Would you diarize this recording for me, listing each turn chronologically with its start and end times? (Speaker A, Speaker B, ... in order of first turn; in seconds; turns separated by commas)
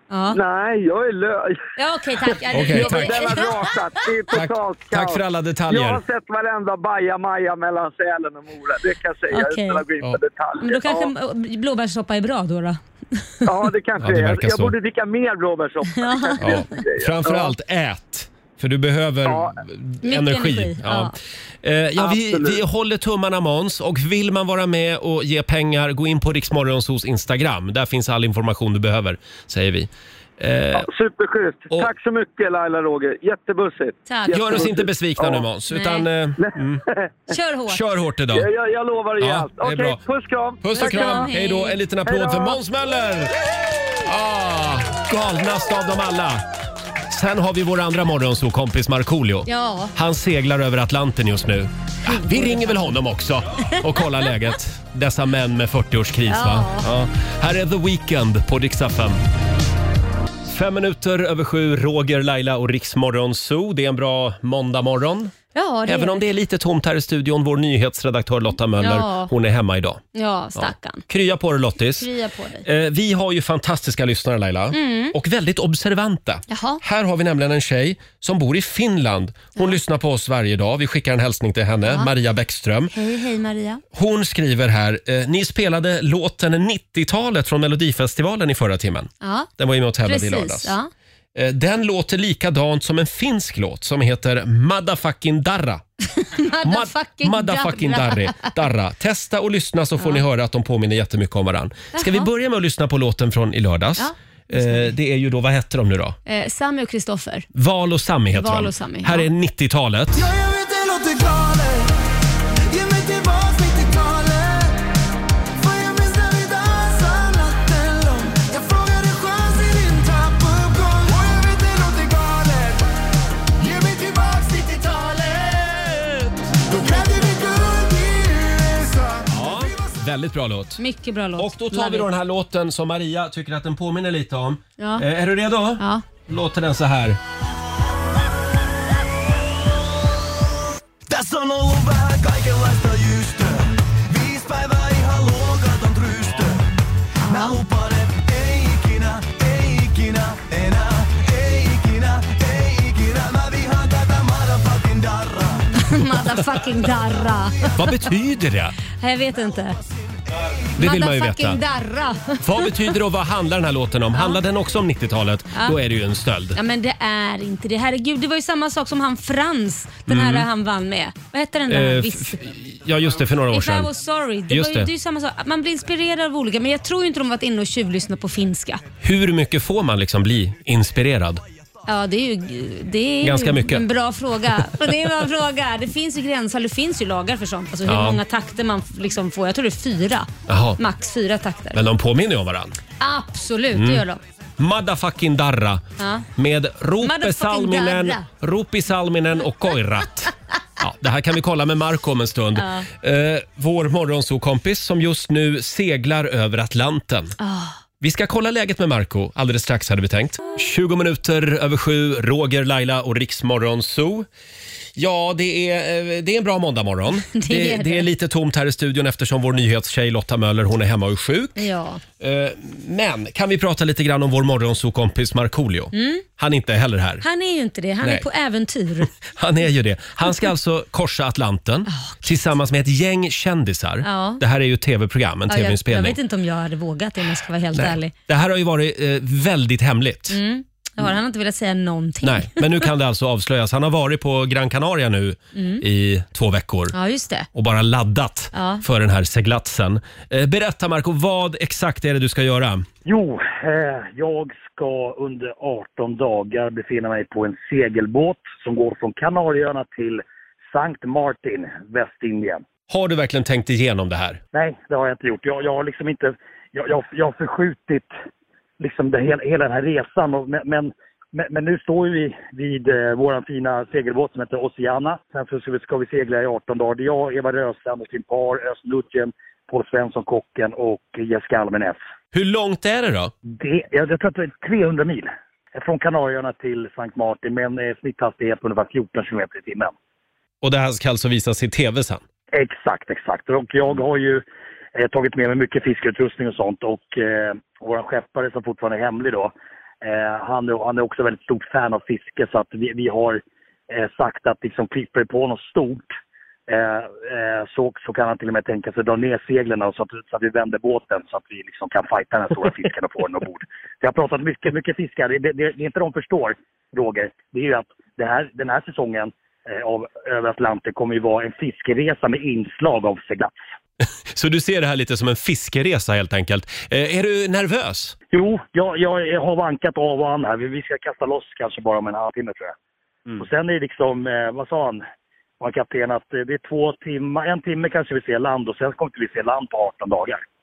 Speaker A: 0.1-0.4, Speaker B: 0.3-1.6, Speaker A: 1.8-3.6, Speaker C: 2.5-3.4, Speaker B: 2.6-11.1, Speaker C: 4.3-6.0, Speaker A: 9.3-9.8, Speaker A: 10.6-13.4, Speaker B: 13.4-17.5, Speaker C: 14.0-14.7, Speaker A: 15.9-16.6, Speaker C: 16.4-30.9, Speaker B: 19.2-19.6, Speaker A: 20.0-21.1, Speaker B: 22.0-22.6, Speaker B: 30.7-35.4, Speaker A: 34.0-34.7, Speaker C: 34.3-36.8, Speaker A: 35.7-36.1, Speaker B: 36.4-37.1, Speaker A: 37.3-37.8, Speaker C: 37.7-38.5, Speaker B: 38.3-41.3, Speaker C: 39.2-40.0, Speaker C: 40.6-43.3, Speaker A: 40.7-41.8, Speaker B: 42.0-42.5, Speaker C: 44.0-46.4, Speaker C: 47.1-59.2, Speaker A: 49.5-49.9, Speaker A: 52.0-52.9, Speaker A: 56.3-56.9, Speaker C: 60.5-65.3, Speaker A: 65.5-66.2, Speaker C: 65.8-70.0, Speaker A: 68.8-69.3, Speaker A: 70.1-71.0, Speaker C: 70.5-72.1, Speaker A: 71.9-72.7, Speaker C: 72.6-82.9, Speaker A: 74.7-75.1, Speaker A: 76.5-76.8, Speaker A: 81.8-82.1, Speaker A: 82.9-83.8, Speaker C: 83.9-90.8, Speaker A: 89.2-89.5, Speaker A: 90.0-90.9, Speaker C: 91.3-95.8, Speaker A: 96.1-98.5, Speaker C: 96.6-106.2, Speaker A: 101.9-102.3, Speaker A: 104.0-104.8, Speaker A: 106.2-107.5, Speaker C: 107.5-110.3, Speaker A: 108.3-109.3, Speaker D: 110.1-112.0, Speaker D: 112.7-114.8, Speaker D: 115.6-122.9, Speaker D: 123.5-129.9, Speaker C: 129.3-130.8, Speaker A: 130.8-132.1, Speaker C: 131.4-137.2, Speaker A: 134.8-135.1, Speaker A: 135.8-136.0, Speaker D: 141.1-146.7, Speaker A: 147.2-147.6, Speaker D: 147.2-157.7, Speaker A: 155.7-158.0, Speaker C: 157.8-158.8, Speaker A: 158.9-159.8, Speaker D: 160.3-160.7, Speaker C: 160.8-161.6, Speaker A: 160.8-162.9, Speaker C: 162.4-166.6, Speaker A: 164.1-164.4, Speaker A: 166.5-172.4, Speaker C: 170.1-170.5, Speaker C: 171.7-173.9, Speaker A: 173.5-178.8, Speaker C: 174.5-174.9, Speaker C: 179.0-181.4, Speaker A: 181.9-191.8, Speaker C: 183.2-183.8, Speaker C: 187.8-188.2, Speaker C: 190.5-190.8, Speaker C: 191.7-192.8, Speaker A: 193.0-194.2, Speaker C: 193.7-194.0, Speaker C: 194.6-195.8, Speaker A: 196.0-196.2, Speaker C: 196.3-207.3, Speaker A: 197.0-198.2, Speaker A: 202.6-202.9, Speaker A: 207.4-207.8, Speaker C: 208.0-214.3, Speaker C: 214.9-221.6, Speaker A: 217.3-218.1, Speaker A: 221.6-222.0, Speaker C: 222.2-227.2, Speaker A: 225.9-226.2, Speaker A: 227.2-229.1, Speaker C: 229.1-236.2, Speaker A: 231.9-232.2, Speaker A: 234.0-234.4, Speaker A: 235.5-238.1, Speaker C: 237.7-240.4, Speaker A: 240.3-242.9, Speaker C: 242.2-246.9, Speaker A: 245.5-245.8, Speaker A: 246.9-247.5, Speaker C: 247.5-252.8, Speaker A: 248.5-248.8, Speaker E: 253.0-262.6, Speaker C: 262.9-264.4, Speaker E: 264.5-268.1, Speaker E: 268.8-282.0, Speaker C: 282.3-283.3, Speaker E: 283.5-289.9, Speaker C: 290.6-292.2, Speaker E: 292.5-294.4, Speaker E: 294.9-306.1, Speaker E: 306.7-323.5, Speaker C: 324.0-328.1, Speaker E: 328.3-332.7, Speaker E: 333.4-335.0, Speaker E: 335.6-340.4